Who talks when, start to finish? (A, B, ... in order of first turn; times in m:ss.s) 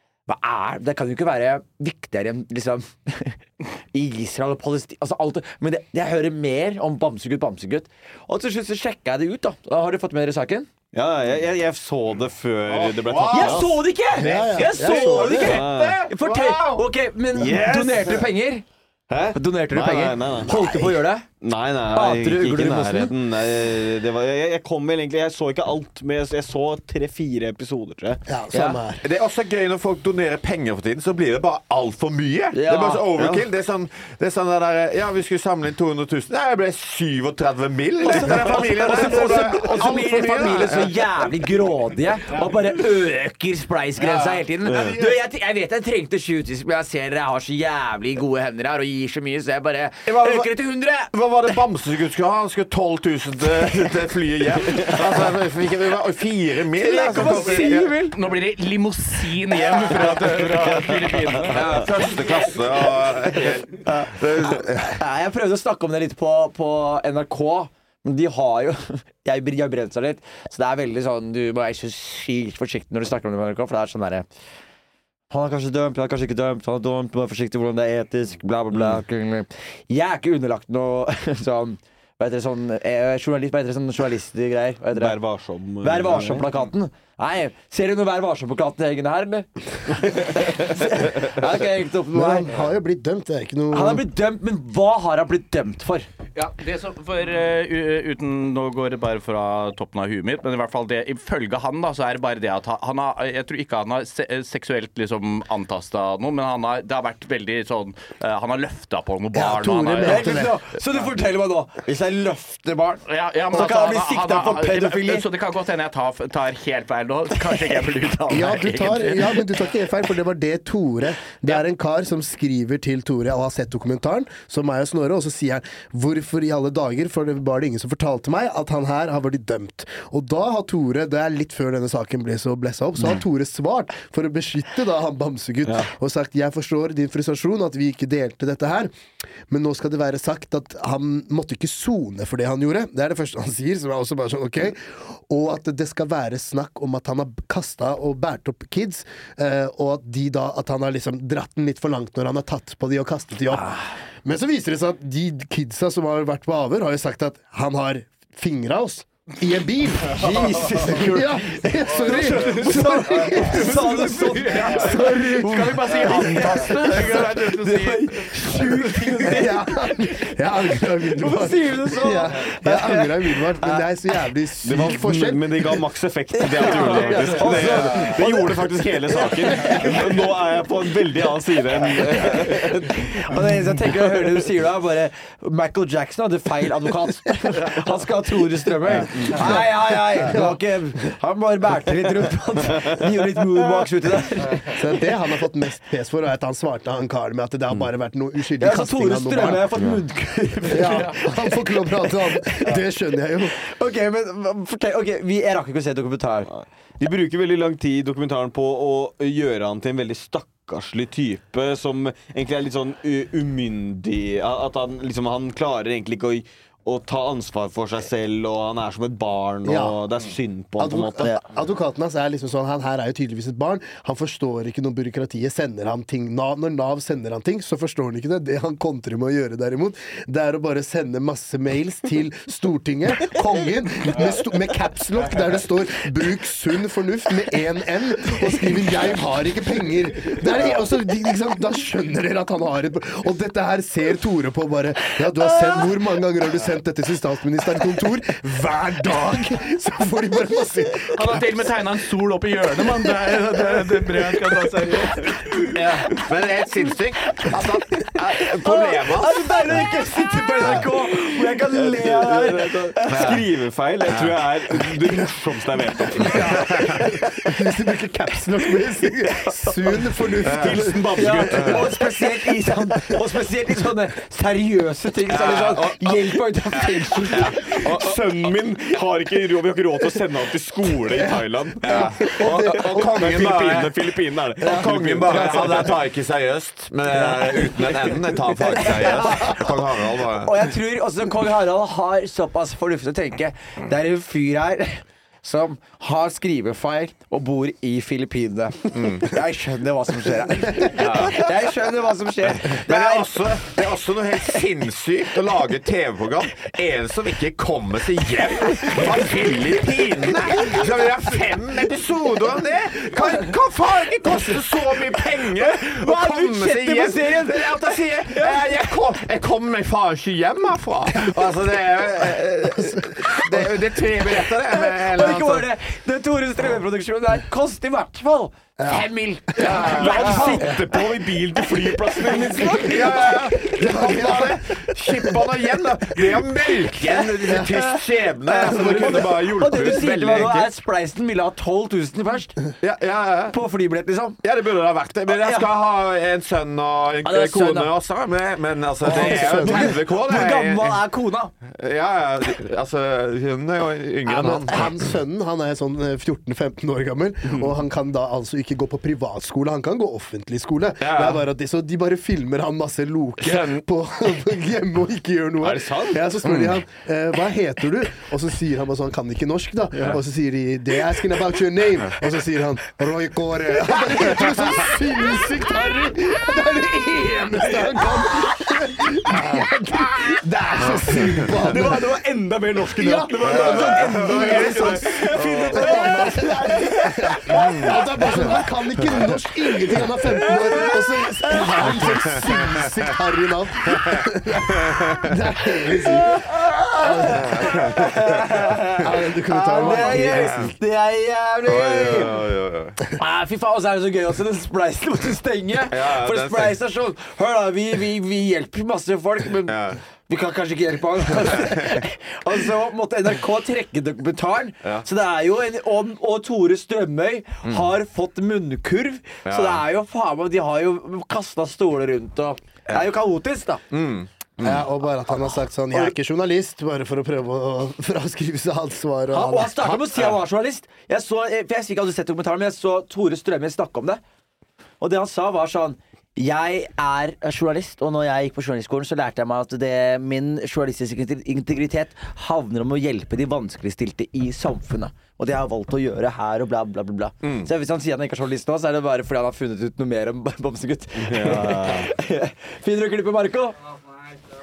0:00.3-0:10.7 A
0:10.9-0:16.1 B
0:12.7-0:14.3 C
0:13.3-0:18.6 A
0:14.2-0:15.6 D
0:15.2-0:16.8 C
0:17.4-0:18.3 B
0:19.1-0:20.7 B
0:19.4-0:21.3 A
0:20.5-0:20.9 D
0:21.4-0:28.2 B
0:21.9-0:23.1 A
0:28.3-0:29.0 D
0:28.5-0:28.8 A
0:29.0-0:41.6 C
0:32.5-0:33.1 A
0:33.2-0:33.4 B
0:38.0-0:51.1 A
0:44.0-0:45.0 C
0:44.6-0:45.0 B
0:50.1-0:50.5 C
0:51.1-0:58.1 C
0:54.6-0:55.1 B
0:56.7-0:58.2 A
0:57.2-1:01.8 E
0:59.8-1:01.5 B
1:01.4-1:05.0 C
1:03.8-1:14.3 A
1:15.3-1:25.2 A
1:24.9-1:26.6 B
1:25.8-1:32.5 A
1:32.1-1:34.1 D
1:33.7-1:36.1 A
1:36.4-1:50.5 E
1:49.3-1:50.6 D
1:50.0-1:55.2 A
1:53.1-1:59.4 E
1:58.3-2:18.9 D
2:15.7-2:15.9 B
2:19.5-2:44.0 D
2:33.6-2:33.8 A
2:40.1-2:49.7 A
2:41.9-2:49.3 E
2:44.7-2:47.0 D
2:49.2-2:55.8 D
2:51.1-2:53.9 A
2:54.6-3:03.5 B
2:56.3-3:00.0 A
2:56.7-2:57.8 D
3:01.8-3:14.9 A
3:08.9-3:09.6 B
3:09.0-3:10.6 D
3:14.7-3:19.7 D
3:18.6-3:21.4 A
3:20.6-3:23.6 D
3:20.8-3:21.2 E
3:23.6-3:26.5 A
3:26.5-3:41.4 B
3:39.6-3:40.0 D
3:40.8-4:11.4 D
4:11.1-4:16.1 E
4:15.8-4:19.8 C
4:17.4-4:23.4 A
4:20.6-4:27.6 B
4:24.1-4:24.4 C
4:26.2-4:31.4 D
4:26.5-4:27.1 C
4:29.3-4:32.3 B
4:30.4-4:30.8 C
4:31.2-4:38.0 A
4:31.5-4:32.0 C
4:35.3-4:36.0 C
4:35.9-4:36.2 B
4:36.9-4:37.6 C
4:37.3-4:46.0 B
4:41.8-4:50.8 C
4:41.9-4:43.3 D
4:44.6-4:45.0 D
4:48.8-5:03.8 A
4:58.9-4:59.4 C
5:01.0-5:01.5 C
5:02.6-5:25.8 C
5:08.9-5:10.9 A
5:15.6-5:18.9 A
5:24.3-5:31.0 A
5:28.8-5:29.1 D
5:29.7-5:33.0 B
5:29.7-5:30.4 C
5:32.2-5:34.3 A
5:32.8-5:40.7 C
5:33.7-5:34.6 D
5:37.0-5:42.6 A
5:42.8-5:43.6 C
5:43.5-5:44.4 A
5:44.4-5:51.1 C
5:45.3-5:45.7 A
5:47.2-5:47.9 A
5:49.0-5:51.5 A
5:49.0-5:50.0 D
5:51.6-5:55.1 C
5:54.3-6:22.2 D
5:54.4-5:54.8 A
5:57.5-5:57.8 B
6:01.0-6:01.5 C
6:03.4-6:03.8 C
6:05.6-6:06.3 B
6:06.5-6:06.8 C
6:13.9-6:15.0 C
6:20.8-6:21.6 C
6:21.5-6:28.6 B
6:22.8-6:36.4 D
6:23.4-6:26.0 C
6:25.4-6:26.3 A
6:27.6-6:29.4 C
6:29.7-6:32.3 B
6:31.8-6:35.4 C
6:35.9-6:42.3 A
6:37.0-6:37.8 D
6:37.4-6:38.8 C
6:39.0-6:40.7 D
6:39.6-6:40.8 C
6:41.6-6:43.0 C
6:43.2-7:03.8 A
6:45.9-6:46.8 C
6:49.6-6:50.0 C
6:51.4-6:52.0 C
6:57.6-6:57.9 C
6:59.5-6:59.9 C
7:03.9-7:04.9 C
7:04.6-7:10.1 D
7:09.3-7:14.2 A
7:15.0-7:33.8 A
7:27.4-7:27.7 C
7:31.2-7:32.1 B